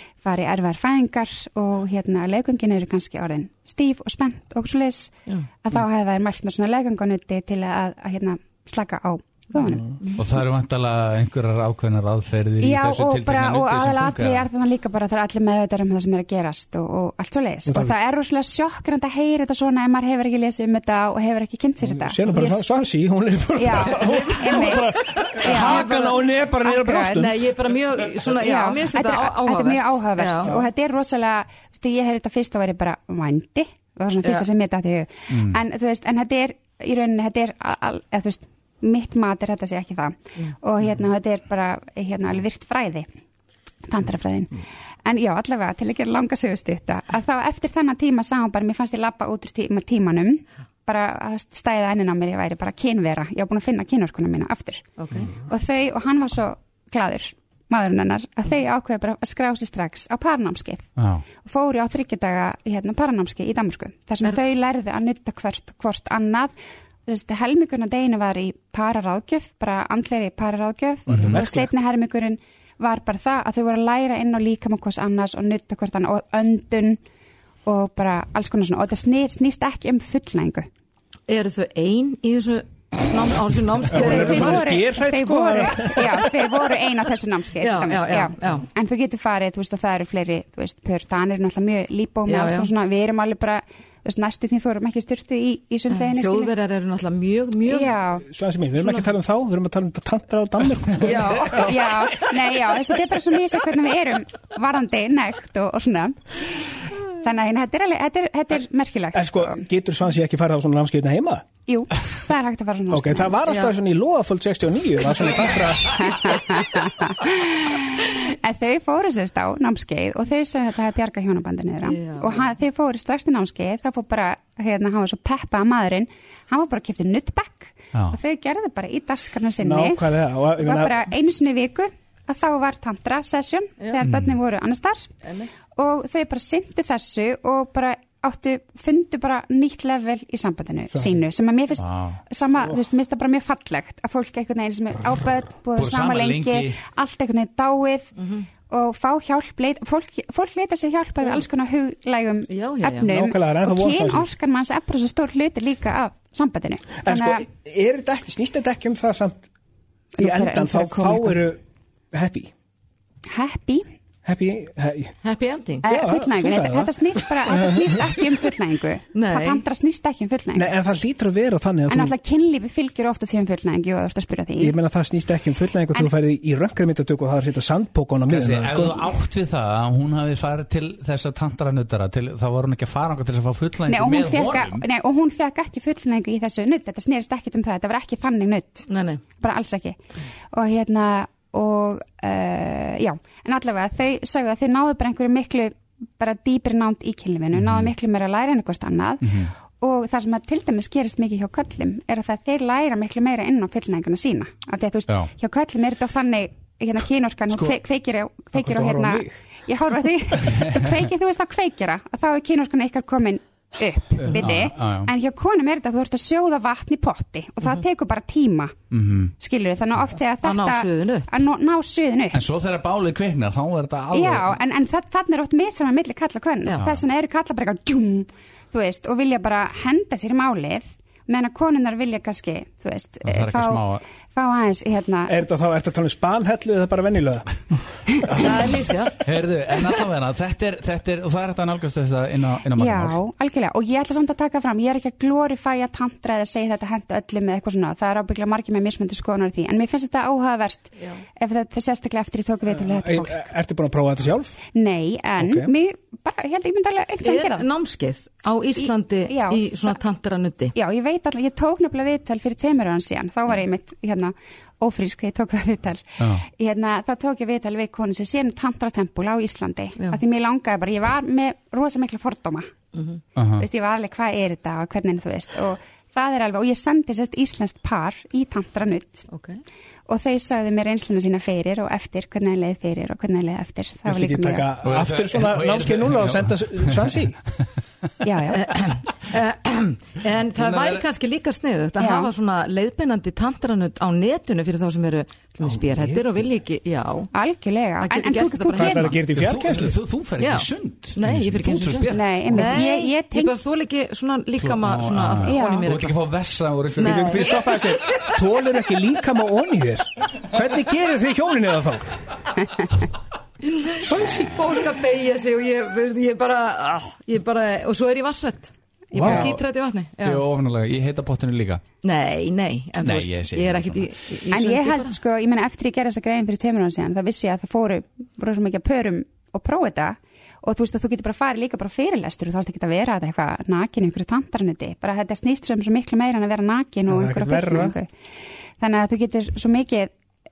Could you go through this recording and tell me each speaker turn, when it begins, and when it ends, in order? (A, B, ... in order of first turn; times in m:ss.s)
0:00.2-0:10.0 A
0:10.2-0:14.5 B
0:12.6-0:22.6 A
0:17.7-0:17.9 C
0:21.8-0:27.5 C
0:23.6-0:27.3 A
0:25.2-0:26.2 D
0:27.2-0:30.6 D
0:28.3-0:43.1 A
0:35.3-0:35.6 B
0:43.9-1:00.9 A
0:55.0-0:55.3 D
1:01.0-1:01.2 B
1:01.4-1:06.5 A
1:07.1-1:17.0 A
1:11.1-1:11.7 C
1:11.1-1:11.4 B
1:17.7-1:20.7 A
1:21.3-1:24.8 D
1:23.9-1:26.4 C
1:23.9-1:36.5 A
1:27.6-1:28.6 D
1:32.3-1:32.7 D
1:35.9-1:38.0 D
1:37.7-1:38.3 A
1:38.2-1:41.8 C
1:41.0-1:41.7 D
1:41.5-1:49.6 A
1:49.2-1:51.4 C
1:51.7-1:53.4 A
1:52.9-1:56.1 C
1:55.8-2:15.1 A
2:01.8-2:02.4 D
2:09.6-2:11.0 C
2:14.0-2:14.4 B
2:15.2-2:15.5 D
2:15.7-2:28.1 A
2:21.8-2:22.2 B
2:25.8-2:26.8 B
2:28.2-2:28.5 D
2:28.7-2:37.4 A
2:32.5-2:33.1 D
2:33.1-2:34.3 C
2:37.0-2:39.4 C
2:40.1-2:41.4 A
2:40.2-2:41.6 C
2:42.1-2:42.5 C
2:43.3-2:43.9 A
2:44.2-2:45.2 C
2:45.2-2:45.8 D
2:45.8-2:50.7 A
2:45.8-2:48.1 C
2:49.1-2:49.6 D
2:50.6-2:52.1 C
2:51.9-2:54.8 A
2:54.6-2:59.1 C
2:58.3-3:04.8 B
3:03.9-3:08.9 A
3:08.9-3:09.2 D
3:09.4-3:10.0 A
3:10.5-3:38.7 A
3:17.6-3:17.9 B
3:19.2-3:19.5 B
3:28.5-3:29.5 C
3:30.4-3:31.0 B
3:34.2-3:35.1 B
3:38.9-3:39.3 B
3:39.4-3:42.4 A
3:40.4-3:41.3 D
3:42.3-3:44.6 B
3:44.1-3:55.3 A
3:53.2-3:54.0 B
3:55.3-3:57.6 C
3:58.3-3:58.6 B
3:58.3-3:59.2 D
3:59.2-4:03.2 B
4:02.8-4:13.5 A
4:12.9-4:14.6 C
4:14.7-4:17.7 A
4:15.4-4:15.7 C
4:17.2-4:20.7 D
4:18.8-4:20.0 A
4:20.8-4:32.7 A
4:26.2-4:26.4 B
4:33.0-4:33.2 D
4:33.4-4:33.6 B
4:33.6-4:39.3 A
4:39.3-4:39.6 D
4:40.1-4:44.7 A
4:44.1-4:47.4 C
4:44.8-4:47.2 B
4:48.2-4:48.8 A
4:48.5-4:57.3 D
4:50.6-4:51.0 B
4:52.0-4:52.3 A
4:55.6-4:56.2 C
4:57.3-4:59.2 A
4:58.0-4:59.2 D
4:58.8-5:00.0 C
4:59.4-5:02.8 B
5:00.4-5:06.2 D
5:02.1-5:03.6 A
5:04.6-5:07.5 B
5:05.4-5:05.9 A
5:07.0-5:07.6 D
5:07.0-5:12.2 C
5:13.6-5:20.4 D
5:14.0-5:14.7 C
5:19.1-5:19.6 C
5:19.2-5:19.5 B
5:20.2-5:21.8 B
5:22.0-5:25.2 D
5:23.0-5:24.1 B
5:24.5-5:38.1 A
5:37.1-5:38.0 C
5:38.8-5:40.1 A